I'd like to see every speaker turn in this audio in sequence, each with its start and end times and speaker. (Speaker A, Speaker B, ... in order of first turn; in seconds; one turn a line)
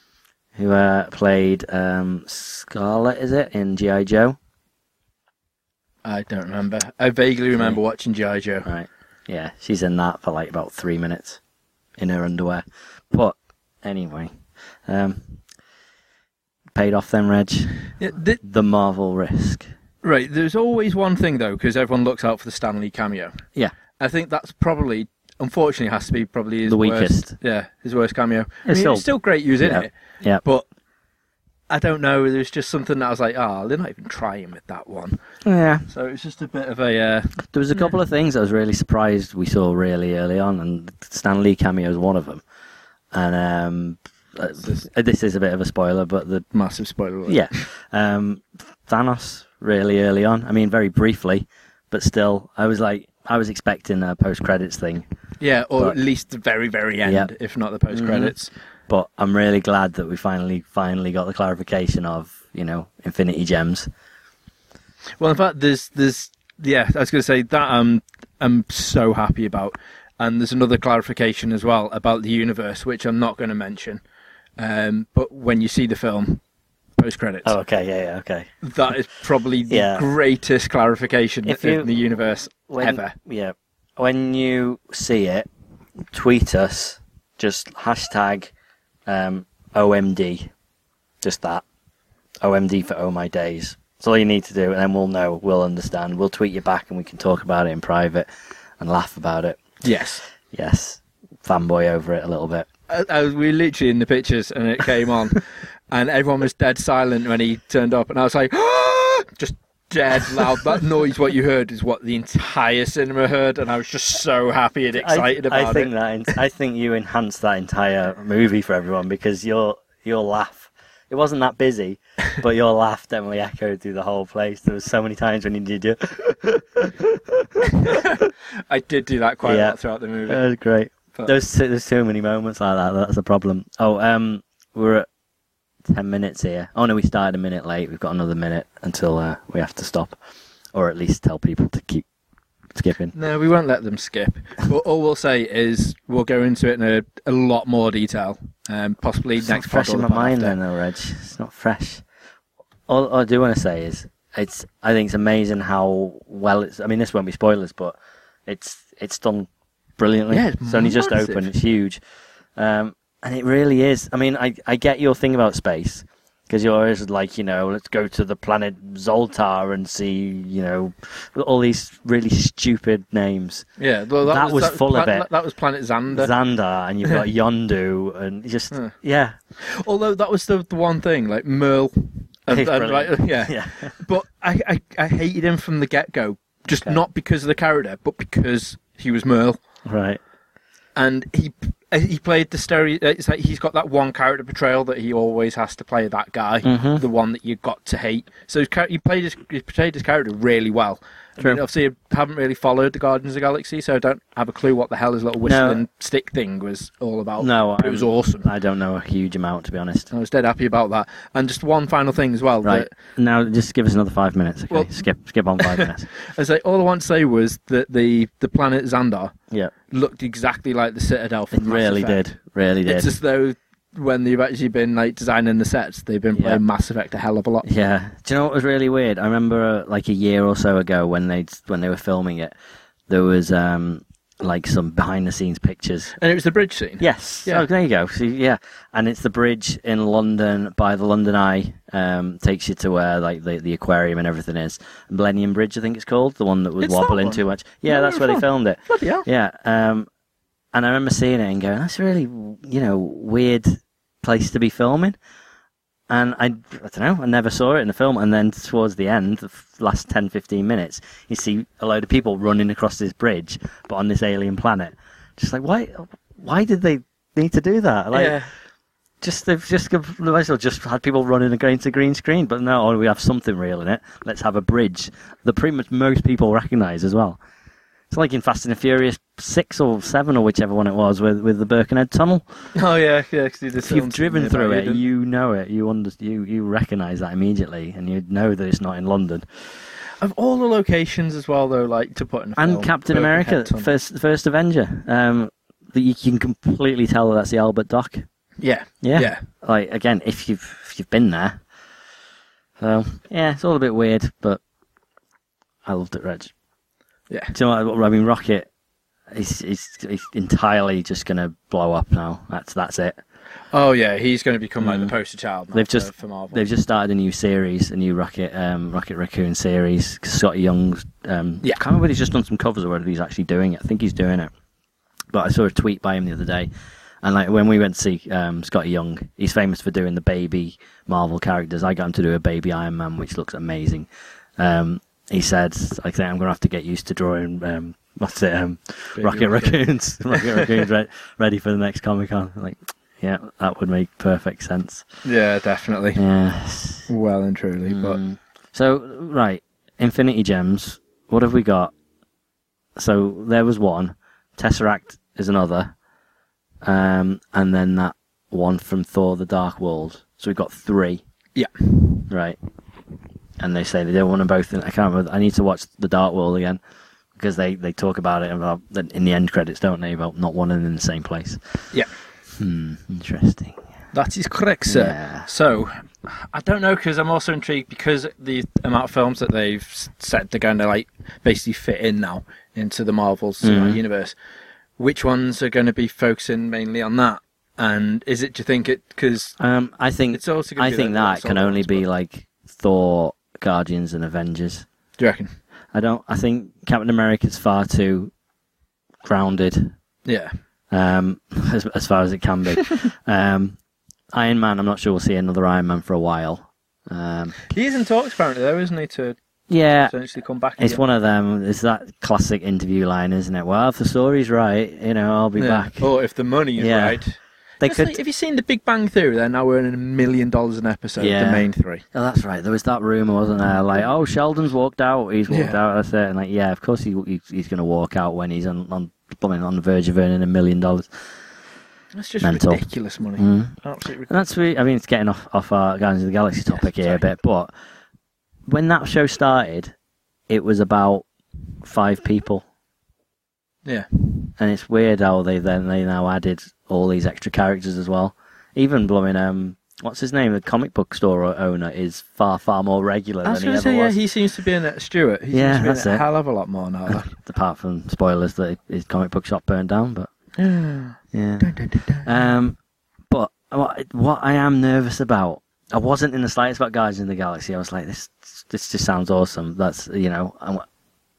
Speaker A: 0.6-4.4
Speaker B: 6.0-8.7
Speaker A: 8.6-11.4
Speaker A: 12.0-15.4
Speaker A: 16.7-17.7
Speaker B: 18.0-18.4
Speaker A: 18.4-19.7
Speaker B: 20.0-23.4
Speaker B: 24.0-30.7
Speaker A: 26.6-27.3
Speaker A: 28.6-30.4
Speaker B: 31.7-35.2
Speaker A: 35.4-35.9
Speaker B: 35.9-37.9
Speaker A: 37.5-42.4
Speaker A: 43.1-46.5
Speaker B: 44.6-44.9
Speaker B: 46.5-47.6
Speaker A: 47.3-55.0
Speaker B: 55.4-58.5
Speaker A: 57.0-57.3
Speaker A: 57.9-58.3
Speaker A: 58.9-63.9
Speaker B: 65.2-74.0
Speaker B: 74.6-76.4
Speaker B: 77.0-77.5
Speaker A: 77.4-78.5
Speaker B: 78.6-83.2
Speaker A: 79.7-80.1
Speaker A: 81.4-81.9
Speaker A: 82.7-85.5
Speaker A: 86.1-88.5
Speaker A: 89.1-90.5
Speaker A: 91.2-91.6
Speaker A: 92.4-98.3
Speaker A: 98.8-99.6
Speaker B: 99.8-100.2
Speaker A: 100.5-102.7
Speaker B: 102.9-115.9
Speaker A: 114.9-128.2
Speaker B: 127.7-130.4
Speaker A: 129.4-135.1
Speaker A: 135.8-140.2
Speaker A: 140.7-142.1
Speaker A: 142.7-143.1
Speaker B: 143.1-150.6
Speaker A: 149.4-152.0
Speaker A: 152.9-162.0
Speaker B: 160.3-161.5
Speaker A: 162.6-173.7
Speaker B: 173.8-176.3
Speaker A: 174.2-175.3
Speaker A: 176.1-179.4
Speaker B: 179.6-189.6
Speaker A: 182.5-183.9
Speaker A: 189.8-190.2
Speaker B: 190.9-208.5
Speaker A: 196.6-197.0
Speaker A: 205.4-205.8
Speaker A: 207.4-210.1
Speaker B: 210.1-212.9
Speaker A: 212.6-216.1
Speaker B: 214.7-215.0
Speaker B: 215.6-219.3
Speaker B: 219.9-222.3
Speaker A: 221.5-223.1
Speaker B: 222.8-227.7
Speaker A: 226.3-226.6
Speaker A: 227.6-232.5
Speaker A: 233.1-236.1
Speaker B: 236.2-237.7
Speaker A: 237.0-250.1
Speaker B: 246.8-249.3
Speaker A: 250.7-255.2
Speaker A: 256.1-268.4
Speaker B: 268.1-268.5
Speaker A: 269.2-277.4
Speaker A: 278.1-282.4
Speaker B: 282.7-285.0
Speaker A: 283.8-289.4
Speaker B: 290.2-293.9
Speaker A: 292.6-298.2
Speaker B: 298.6-299.4
Speaker A: 299.0-301.6
Speaker A: 302.8-304.6
Speaker A: 305.8-306.5
Speaker A: 307.5-308.7
Speaker A: 309.3-313.2
Speaker B: 313.7-316.6
Speaker A: 314.8-315.1
Speaker A: 315.7-324.5
Speaker A: 325.3-326.7
Speaker A: 327.2-345.1
Speaker B: 339.1-339.8
Speaker B: 340.3-340.9
Speaker B: 345.2-346.2
Speaker A: 346.1-347.1
Speaker B: 347.1-348.2
Speaker A: 347.9-351.9
Speaker A: 352.9-355.9
Speaker A: 356.8-361.2
Speaker B: 361.5-362.2
Speaker A: 362.3-362.6
Speaker A: 363.6-366.8
Speaker A: 367.4-371.6
Speaker A: 372.5-373.8
Speaker B: 374.1-384.3
Speaker A: 374.9-375.5
Speaker A: 383.6-384.0
Speaker B: 385.0-389.6
Speaker A: 389.6-394.9
Speaker B: 390.3-392.0
Speaker B: 395.2-395.5
Speaker A: 395.9-398.3
Speaker A: 399.2-399.9
Speaker B: 400.2-400.5
Speaker A: 400.9-403.8
Speaker A: 404.3-407.6
Speaker B: 407.7-409.4
Speaker A: 409.7-410.1
Speaker B: 410.0-411.0
Speaker A: 410.8-416.1
Speaker B: 415.6-422.0
Speaker A: 416.8-417.2
Speaker A: 417.8-418.1
Speaker A: 421.2-431.2
Speaker B: 425.5-425.8
Speaker B: 432.1-434.4
Speaker A: 432.4-432.8
Speaker A: 433.4-433.7
Speaker A: 434.3-437.7
Speaker B: 436.7-437.2
Speaker A: 438.7-439.9
Speaker A: 440.5-441.2
Speaker A: 441.8-442.6
Speaker A: 444.6-454.2
Speaker B: 453.4-457.3
Speaker A: 455.5-456.2
Speaker A: 457.1-460.3
Speaker B: 460.6-462.5
Speaker A: 461.3-462.8
Speaker A: 463.3-470.8